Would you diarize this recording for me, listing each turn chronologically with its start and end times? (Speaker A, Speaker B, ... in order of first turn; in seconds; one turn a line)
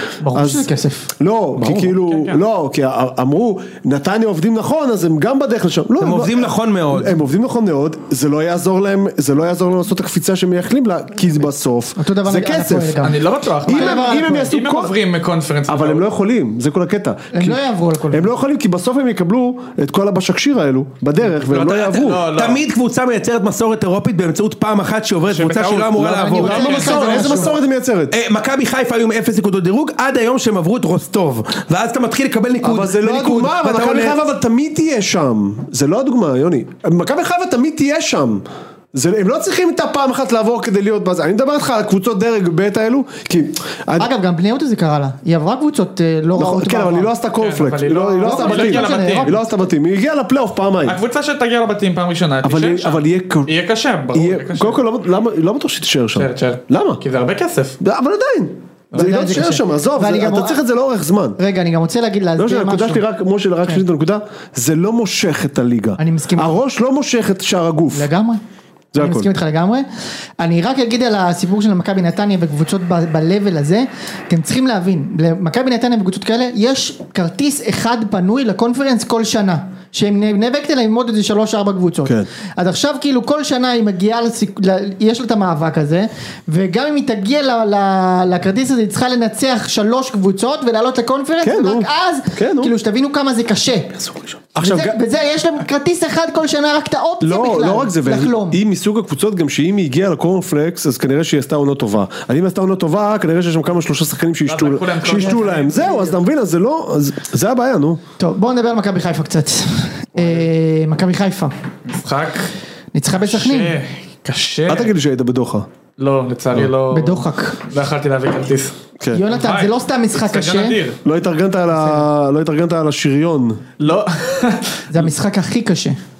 Speaker A: 0.2-1.1
Speaker B: 0.3-13.1
Speaker C: 1.6-2.4
Speaker D: 6.0-7.2
Speaker A: 12.0-14.5
Speaker C: 13.0-16.1
Speaker B: 13.6-14.9
Speaker B: 15.7-22.3
Speaker A: 17.3-18.3
Speaker D: 21.4-27.3
Speaker C: 22.0-22.6
Speaker C: 25.3-27.3
Speaker A: 26.0-27.5
Speaker B: 26.4-28.1
Speaker D: 28.1-34.2
Speaker B: 32.6-44.1
Speaker A: 44.0-47.1
Speaker B: 46.4-51.0
Speaker C: 47.4-49.4
Speaker A: 48.2-49.4
Speaker C: 50.9-54.8
Speaker B: 52.4-53.5
Speaker B: 54.1-57.0
Speaker C: 56.1-57.8
Speaker B: 57.8-61.4
Speaker A: 58.9-60.6
Speaker A: 61.4-63.0
Speaker B: 62.4-68.1
Speaker A: 66.0-66.6
Speaker A: 67.9-68.4
Speaker B: 68.9-69.3
Speaker A: 69.0-69.9
Speaker A: 70.4-94.0
Speaker B: 91.4-92.7
Speaker B: 94.5-95.0
Speaker A: 94.6-98.6
Speaker B: 97.2-108.0
Speaker C: 104.5-105.9
Speaker A: 105.1-106.1
Speaker A: 108.2-111.5
Speaker C: 110.2-110.5
Speaker C: 111.9-112.5
Speaker A: 112.9-113.8
Speaker C: 113.1-114.9
Speaker B: 114.7-115.7
Speaker C: 116.0-118.8
Speaker A: 116.9-117.6
Speaker A: 119.1-120.8
Speaker C: 119.3-121.0
Speaker B: 121.0-123.6
Speaker A: 121.7-122.1
Speaker C: 123.8-124.8
Speaker A: 124.9-126.0